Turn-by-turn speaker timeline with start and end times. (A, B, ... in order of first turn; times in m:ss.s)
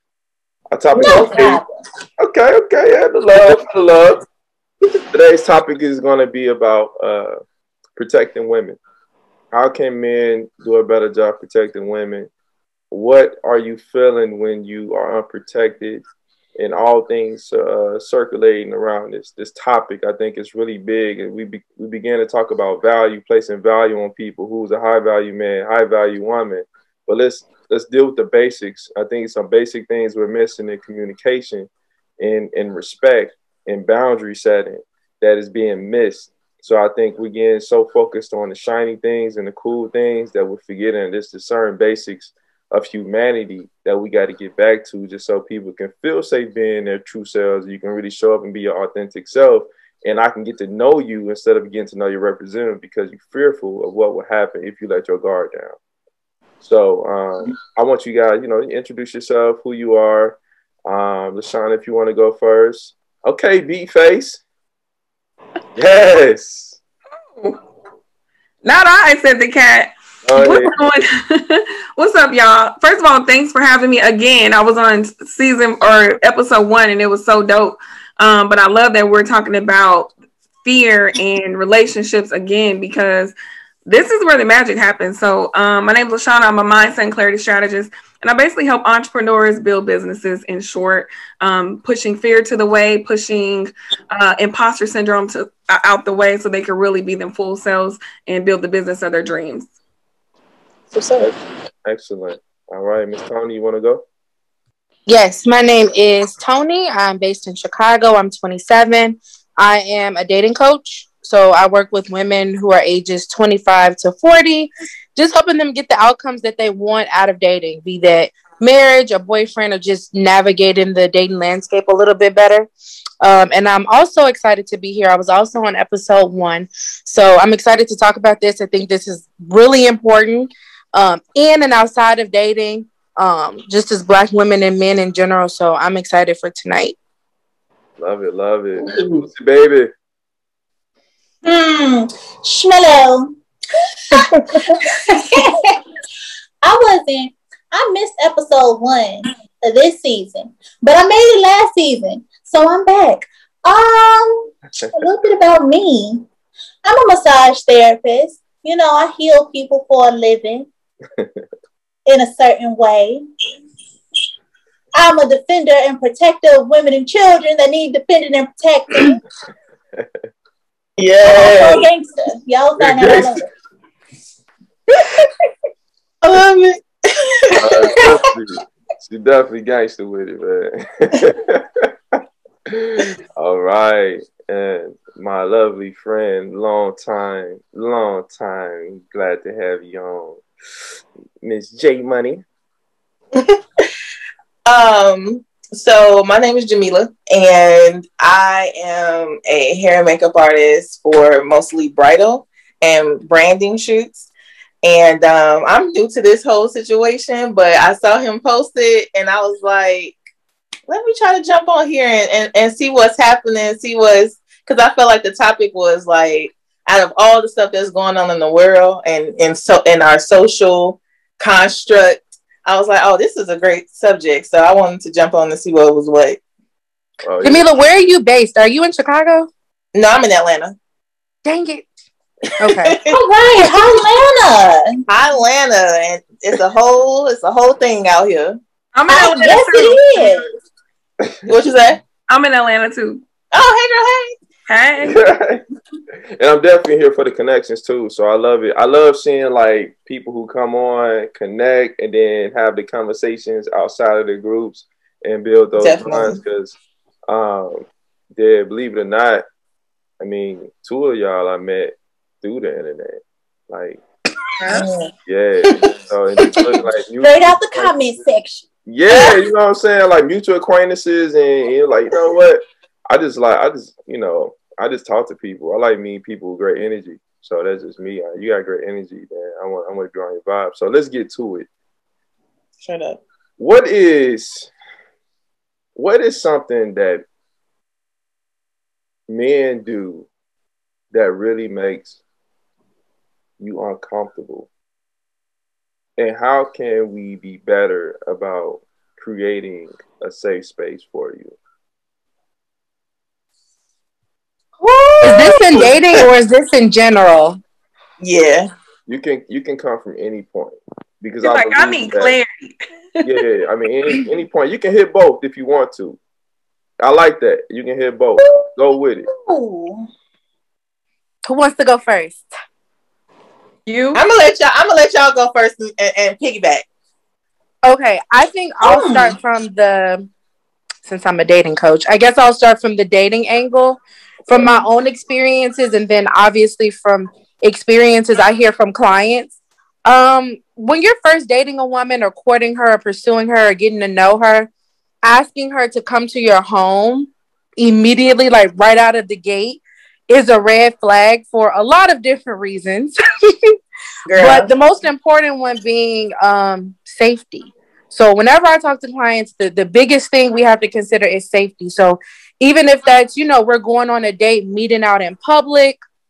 0:00.7-0:01.6 A
0:00.9-0:01.8 B
0:02.2-0:04.2 A
0:05.1-0:07.4 A
0:08.0-0:08.8 A
0:09.5-0:12.3 A
0:12.9-0:16.0 A
0:16.6-0:31.7 A
0:32.2-0:55.8 A
0:56.6-1:04.4 A
1:05.8-1:06.8 A
1:07.3-1:07.6 C
1:08.6-1:20.1 C
1:10.2-1:10.7 A
1:20.6-1:23.3 C
1:23.9-1:39.7 C
1:40.9-1:41.3 B
1:41.2-1:44.0 A
1:45.1-2:02.7 D
2:03.2-2:17.0 D
2:18.0-2:19.9 A
2:18.9-2:19.2 E
2:21.4-2:23.3 B
2:24.1-2:25.8 B
2:26.6-2:36.3 B
2:36.8-2:40.7 B
2:41.2-2:41.4 A
2:42.1-2:43.2 B
2:45.0-2:49.2 B
2:51.0-2:51.9 E
2:51.3-2:53.5 B
2:52.8-2:53.4 A
2:56.2-2:58.2 E
2:57.6-3:02.2 A
3:02.7-3:10.4 A
3:11.4-3:12.4 A
3:13.3-3:13.9 E
3:14.7-3:24.3 E
3:24.8-3:30.2 E
3:30.9-3:46.4 E
3:47.2-3:47.7 A
3:47.4-3:49.5 D
3:50.0-3:50.8 E
3:51.4-3:51.9 D
3:52.6-3:53.0 D
3:52.7-3:53.2 E
3:53.1-3:55.0 B
3:55.1-3:58.6 E
3:59.0-4:00.4 C
3:59.1-4:00.5 B
4:01.5-4:02.0 E
4:02.3-4:03.2 C
4:03.5-4:04.4 E
4:04.7-4:05.2 C
4:05.0-4:05.6 A
4:06.4-4:16.8 A
4:15.8-4:16.4 E
4:17.3-4:19.4 A
4:20.2-4:24.0 A
4:24.7-4:25.1 E
4:25.3-4:28.2 A
4:26.6-4:29.3 B
4:28.9-4:41.7 A
4:42.8-4:43.2 E
4:43.6-4:44.7 A
4:46.0-4:47.2 A
4:49.3-4:50.3 A
4:51.1-4:52.2 A
4:53.6-4:54.7 A
4:56.2-5:01.6 A
5:04.8-5:05.8 B
5:05.2-5:06.2 E
5:05.2-5:07.6 D
5:08.2-5:08.7 E
5:09.1-5:12.4 A
5:11.4-5:13.2 C
5:13.2-5:16.2 A
5:17.0-5:19.3 A
5:19.3-5:20.1 B
5:21.5-5:22.5 D
5:23.9-5:24.2 C
5:24.1-5:26.8 E
5:27.8-5:30.3 D
5:28.8-5:29.4 B
5:31.0-5:39.6 D
5:34.5-5:34.8 A
5:40.1-5:44.7 D
5:45.2-5:53.8 D
5:54.3-5:54.7 E
5:54.4-6:06.0 D